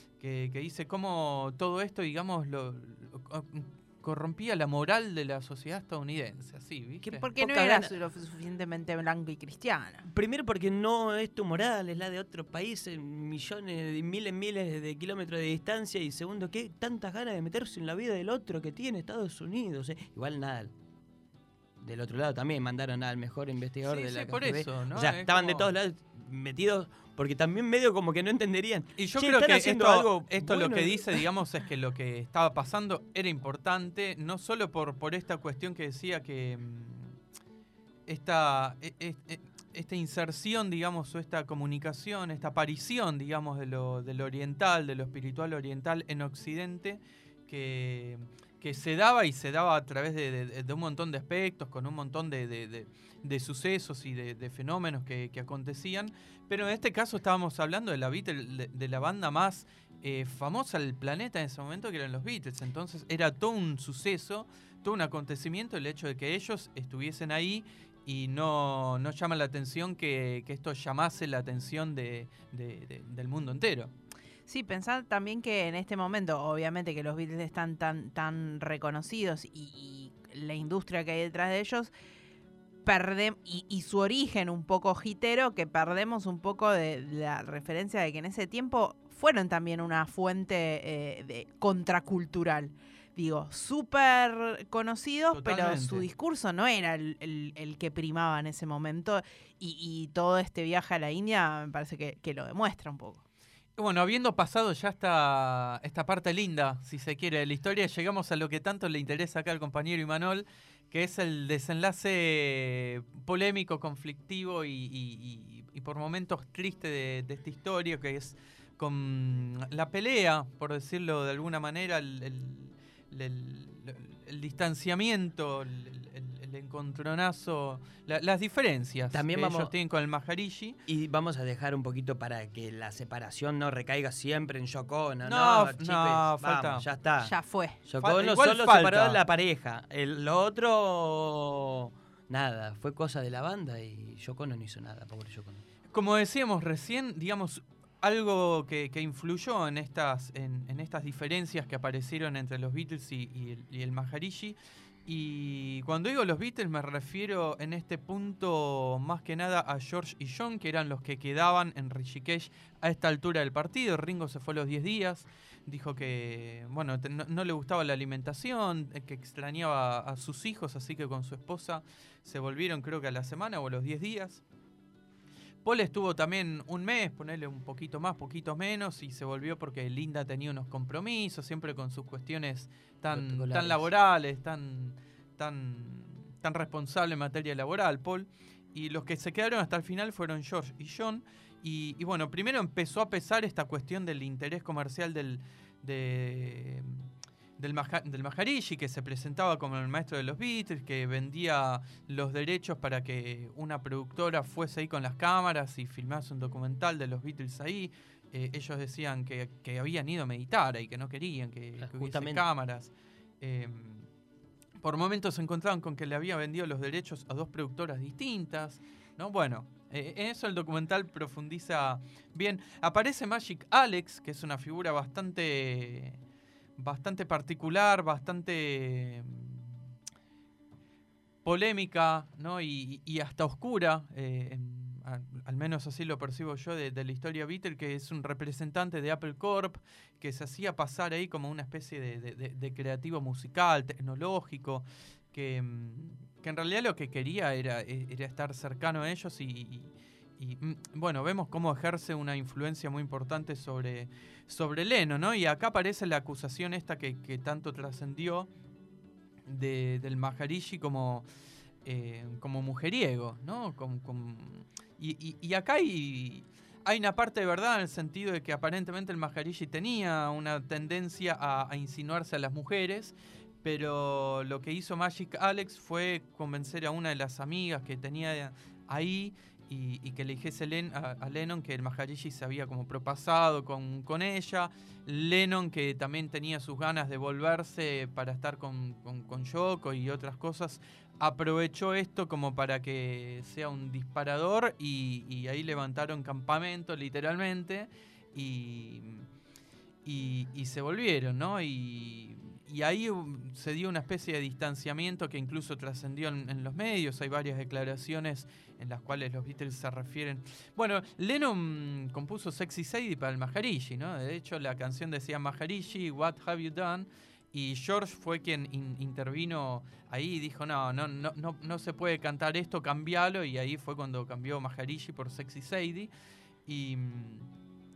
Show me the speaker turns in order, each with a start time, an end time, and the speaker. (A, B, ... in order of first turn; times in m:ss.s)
0:00.2-0:07.3 A
0:07.0-0:10.0 B
0:07.4-0:07.9 C
0:10.0-0:20.7 C
0:21.8-0:31.2 C
0:23.8-0:25.7 A
0:29.0-0:37.2 A
0:38.1-1:13.9 A
1:14.5-1:21.9 B
1:22.8-1:43.2 B
1:35.3-1:36.1 A
1:43.8-2:10.8 A
2:09.1-2:09.7 C
2:10.9-2:17.3 C
2:15.2-2:16.8 A
2:17.2-2:17.8 B
2:17.8-2:25.6 C
2:18.0-2:19.2 A
2:25.9-2:54.4 A
2:55.6-3:17.0 A
3:03.1-3:03.9 C
3:17.6-3:34.1 A
3:31.8-3:32.4 C
3:34.8-3:46.2 A
3:46.8-3:49.8 A
3:51.4-4:18.5 A
4:19.4-4:21.2 A
4:21.8-4:59.2 A
5:00.0-5:26.1 A
5:26.6-5:27.5 A